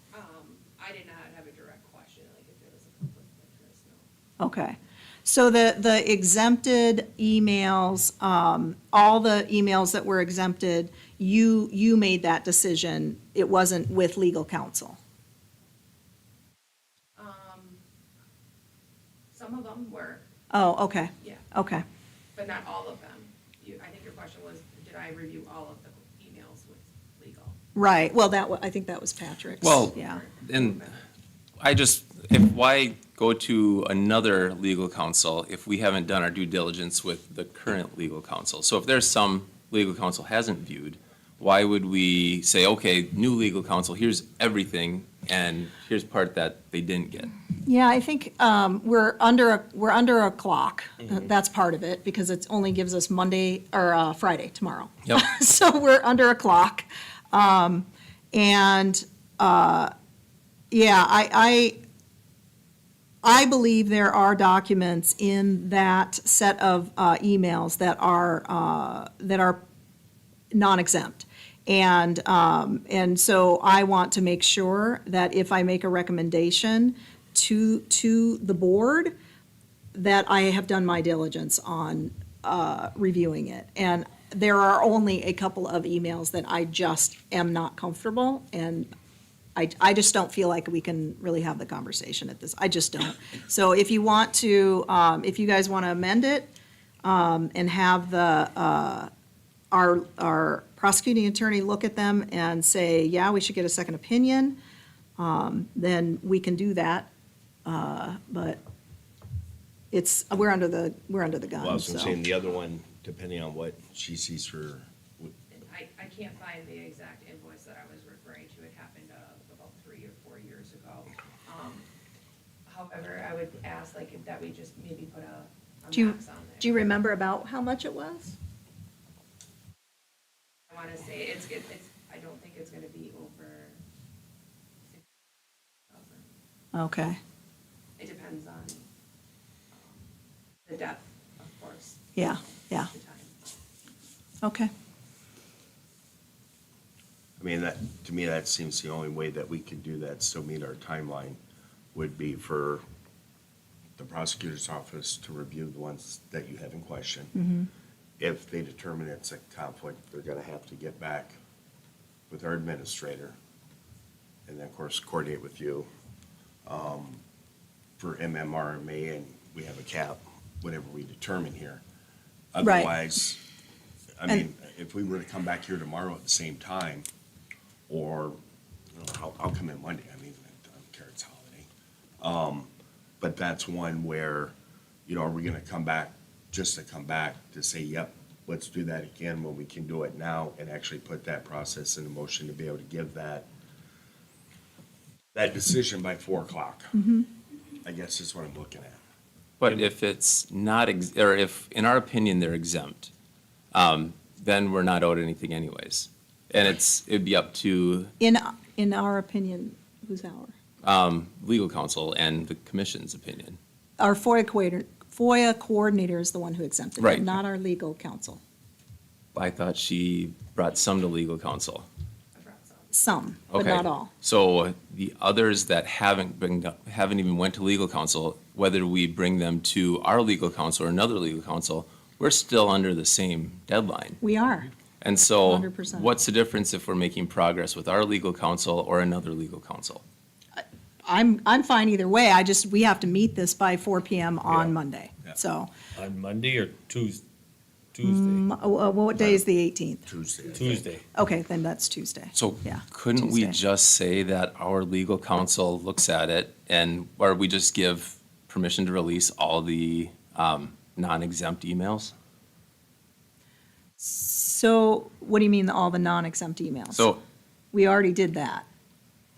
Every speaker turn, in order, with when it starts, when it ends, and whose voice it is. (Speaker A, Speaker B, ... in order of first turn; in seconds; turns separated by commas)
Speaker A: 0.1-4.1, Speaker B: 4.4-15.0, Speaker A: 17.1-17.8, Speaker A: 19.3-20.2, Speaker B: 20.5-21.8, Speaker A: 22.4-27.6, Speaker B: 27.7-30.2, Speaker C: 29.6-30.9, Speaker A: 29.8-31.0, Speaker C: 31.6-47.3, Speaker B: 47.6-59.9, Speaker B: 60.7-61.8, Speaker B: 63.2-69.6, Speaker B: 70.5-79.1, Speaker B: 79.9-88.9, Speaker B: 89.5-96.5, Speaker B: 97.0-99.1, Speaker B: 99.7-104.6, Speaker B: 105.2-107.1, Speaker B: 107.6-108.6, Speaker B: 109.9-112.2, Speaker D: 111.6-115.3, Speaker A: 115.5-121.8, Speaker A: 122.7-126.8, Speaker B: 125.9-128.3, Speaker A: 130.7-133.8, Speaker A: 135.9-136.3, Speaker B: 136.7-137.2, Speaker A: 138.0-138.9, Speaker A: 139.7-140.1, Speaker A: 140.6-143.6, Speaker B: 142.2-142.9, Speaker B: 144.4-144.7, Speaker D: 147.4-151.4, Speaker D: 151.9-152.8, Speaker D: 154.0-157.3, Speaker B: 157.4-157.7, Speaker D: 158.2-161.3, Speaker D: 162.3-163.3, Speaker D: 164.4-165.9, Speaker D: 166.6-167.2, Speaker D: 168.0-171.8, Speaker D: 172.5-173.4, Speaker B: 172.6-173.0, Speaker D: 174.2-177.1, Speaker D: 177.9-178.4, Speaker D: 178.9-181.7, Speaker D: 182.2-182.7, Speaker D: 183.2-184.5, Speaker D: 185.1-193.5, Speaker D: 195.3-196.9, Speaker B: 196.9-197.3, Speaker D: 197.8-199.0, Speaker C: 199.6-203.1, Speaker C: 203.7-208.1, Speaker B: 208.2-210.5, Speaker C: 210.8-213.6, Speaker B: 214.0-218.4, Speaker C: 217.0-217.3, Speaker C: 219.3-221.8, Speaker A: 222.3-222.9, Speaker B: 222.9-224.1, Speaker C: 223.5-234.2, Speaker B: 234.2-234.7, Speaker C: 235.0-240.0, Speaker B: 235.4-236.1, Speaker B: 240.5-245.7, Speaker E: 245.9-247.2, Speaker E: 247.9-248.4, Speaker B: 248.0-250.1, Speaker D: 250.1-250.9, Speaker E: 250.5-251.1, Speaker B: 251.1-253.6, Speaker C: 252.3-262.1, Speaker B: 264.0-267.0, Speaker C: 266.9-267.2, Speaker B: 267.7-268.6